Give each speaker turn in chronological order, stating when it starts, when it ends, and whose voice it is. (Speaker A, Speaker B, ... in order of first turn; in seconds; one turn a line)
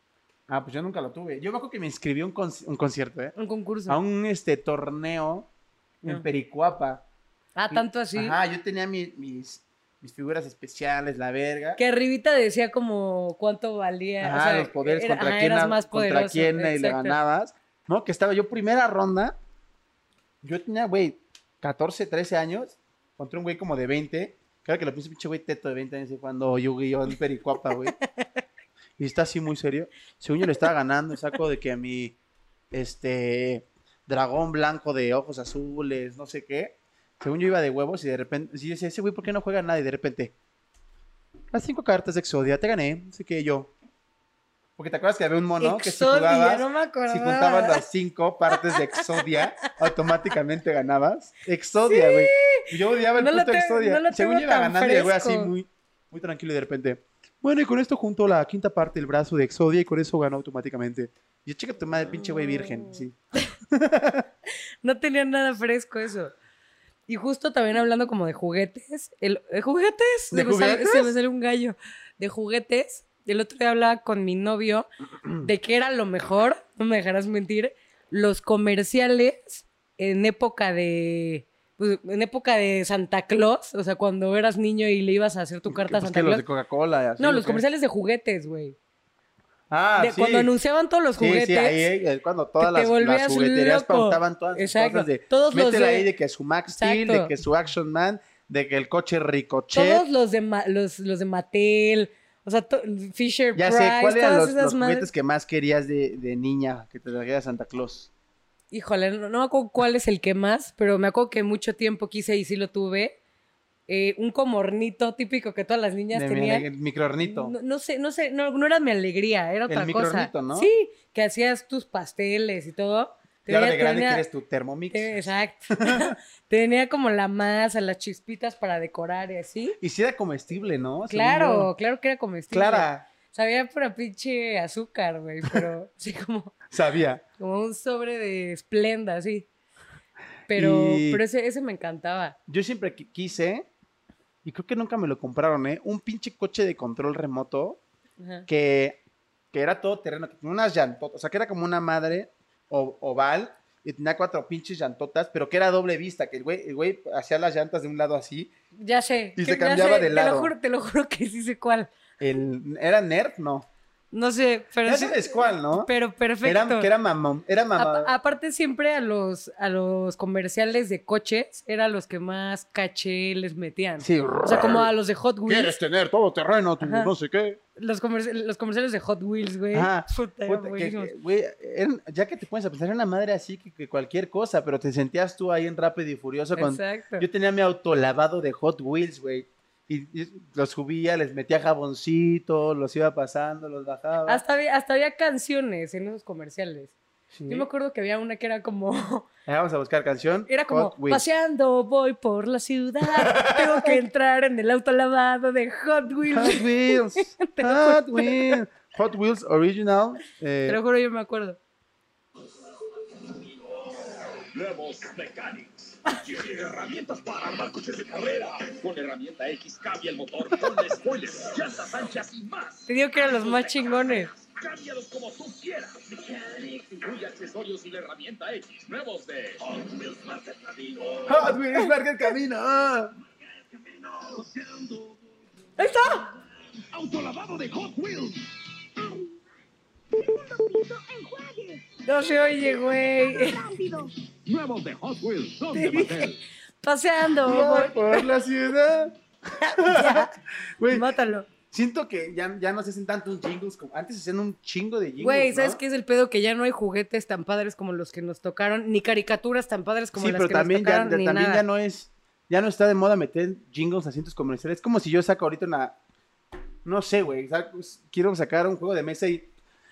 Speaker A: 0.5-3.3
Speaker B: 3.4-4.0
Speaker A: 3.9-5.5
Speaker A: 6.0-7.0
Speaker B: 7.6-8.4
Speaker A: 7.7-11.8
Speaker B: 11.8-17.1
Speaker A: 14.2-19.4
Speaker A: 20.4-27.9
Speaker A: 29.0-32.2
Speaker A: 32.7-40.3
Speaker A: 41.5-43.7
Speaker A: 44.8-63.1
Speaker B: 45.6-47.9
Speaker B: 48.5-49.4
Speaker B: 51.9-55.5
Speaker B: 62.2-63.0
Speaker A: 63.7-64.3
Speaker B: 64.8-66.3
Speaker B: 67.1-74.9
Speaker A: 70.3-71.1
Speaker B: 75.4-86.4
Speaker A: 85.7-87.6
Speaker B: 87.2-88.8
Speaker A: 89.7-90.5
Speaker B: 90.0-91.9
Speaker A: 91.2-100.0
Speaker B: 92.6-96.1
Speaker B: 96.7-97.3
Speaker B: 99.7-105.1
Speaker A: 103.5-108.1
Speaker B: 108.7-113.2
Speaker B: 113.9-116.7
Speaker A: 116.1-117.5
Speaker B: 117.2-124.2
Speaker A: 119.7-120.7
Speaker A: 123.5-126.1
Speaker B: 124.9-129.8
Speaker A: 129.8-131.7
Speaker B: 131.1-136.6
Speaker A: 132.5-133.1
Speaker A: 136.7-137.2
Speaker B: 137.4-139.5
Speaker B: 140.5-142.4
Speaker A: 140.5-141.2
Speaker A: 142.5-143.7
Speaker A: 144.4-147.8
Speaker B: 148.2-148.5
Speaker A: 148.5-149.0
Speaker A: 149.5-158.5
Speaker B: 158.8-161.9
Speaker A: 159.4-160.5
Speaker A: 162.2-163.7
Speaker B: 164.1-166.9
Speaker A: 164.8-165.9
Speaker A: 166.4-168.1
Speaker B: 167.8-175.8
Speaker A: 174.0-174.9
Speaker A: 175.4-177.6
Speaker B: 176.8-177.1
Speaker B: 177.8-181.1
Speaker A: 179.7-194.4
Speaker B: 186.6-187.3
Speaker B: 194.3-196.9
Speaker A: 197.3-197.7
Speaker B: 197.5-199.3
Speaker A: 199.4-201.2
Speaker B: 200.5-208.6
Speaker A: 203.0-204.0
Speaker A: 206.3-210.8
Speaker B: 210.7-211.6
Speaker C: 213.4-231.6
Speaker B: 222.9-224.3
Speaker A: 231.3-233.1
Speaker C: 233.7-235.2
Speaker B: 235.8-236.3
Speaker C: 236.8-238.5
Speaker D: 240.1-241.9
Speaker B: 242.1-243.7
Speaker D: 242.6-244.1
Speaker C: 244.0-246.4
Speaker B: 245.7-246.3
Speaker B: 246.8-248.3
Speaker A: 247.4-251.1
Speaker B: 249.6-250.3
Speaker B: 250.9-251.5
Speaker A: 251.7-255.8
Speaker B: 255.2-261.6
Speaker A: 260.1-265.9
Speaker A: 266.9-269.5